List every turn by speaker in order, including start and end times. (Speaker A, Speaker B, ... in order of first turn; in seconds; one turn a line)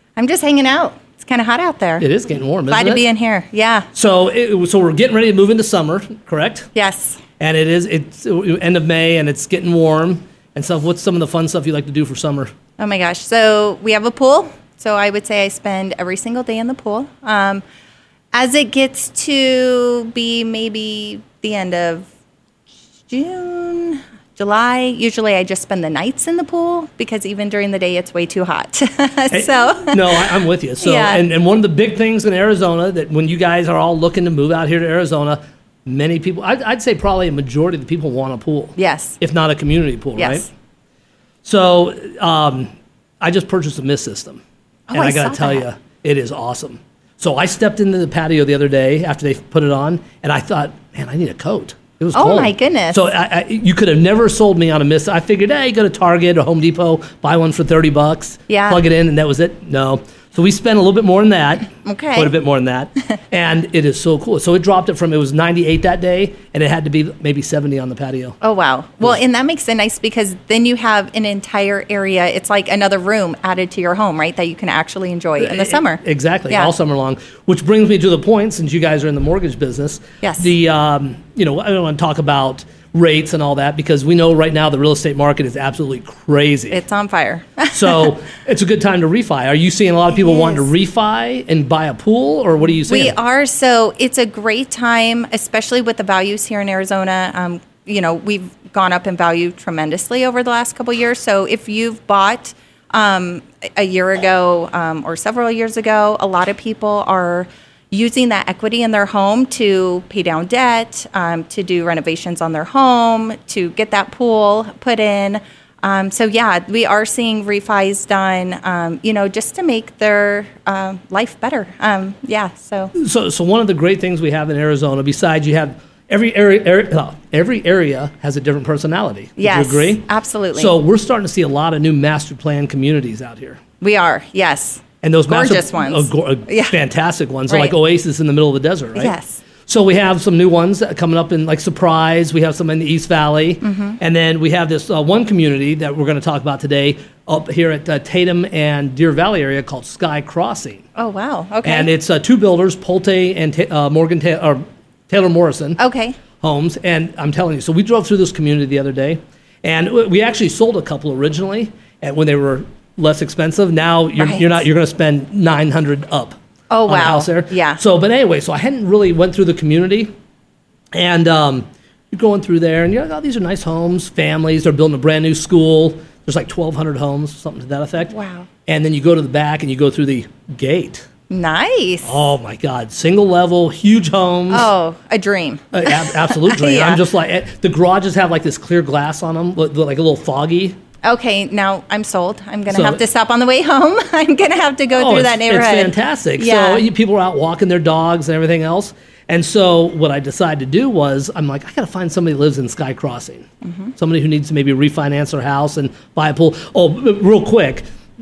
Speaker A: 0.1-2.1
Speaker B: 2.0-3.0
Speaker A: 2.7-3.9
Speaker B: 3.9-6.7
Speaker A: 6.7-7.2
Speaker B: 7.4-12.5
Speaker A: 12.8-17.6
Speaker A: 18.3-22.1
Speaker A: 23.1-30.3
Speaker B: 29.3-40.5
Speaker A: 30.8-31.2
Speaker A: 38.8-39.2
Speaker A: 40.1-40.5
Speaker B: 41.4-44.4
Speaker A: 44.9-45.7
Speaker B: 44.9-68.4
Speaker A: 52.1-53.0
Speaker A: 58.5-58.8
Speaker A: 61.8-62.4
Speaker A: 68.4-76.7
Speaker B: 75.4-86.8
Speaker A: 80.2-80.5
Speaker A: 86.7-88.1
Speaker B: 87.7-93.1
Speaker A: 90.1-90.7
Speaker A: 92.8-122.9
Speaker B: 123.0-133.6
Speaker A: 129.4-130.8
Speaker A: 133.8-136.8
Speaker B: 135.0-139.1
Speaker A: 137.5-137.8
Speaker A: 138.9-139.4
Speaker B: 139.7-150.8
Speaker A: 143.6-144.0
Speaker A: 150.9-151.9
Speaker B: 151.6-155.8
Speaker A: 155.8-156.2
Speaker B: 156.4-170.1
Speaker A: 164.2-164.6
Speaker A: 166.7-167.8
Speaker B: 170.9-178.1
Speaker A: 178.1-178.5
Speaker B: 178.7-181.1
Speaker A: 181.3-182.1
Speaker B: 182.0-184.7
Speaker A: 184.5-187.0
Speaker B: 185.7-190.8
Speaker A: 191.0-196.9
Speaker B: 192.7-193.0
Speaker B: 194.9-203.4
Speaker A: 203.6-203.9
Speaker B: 204.0-207.8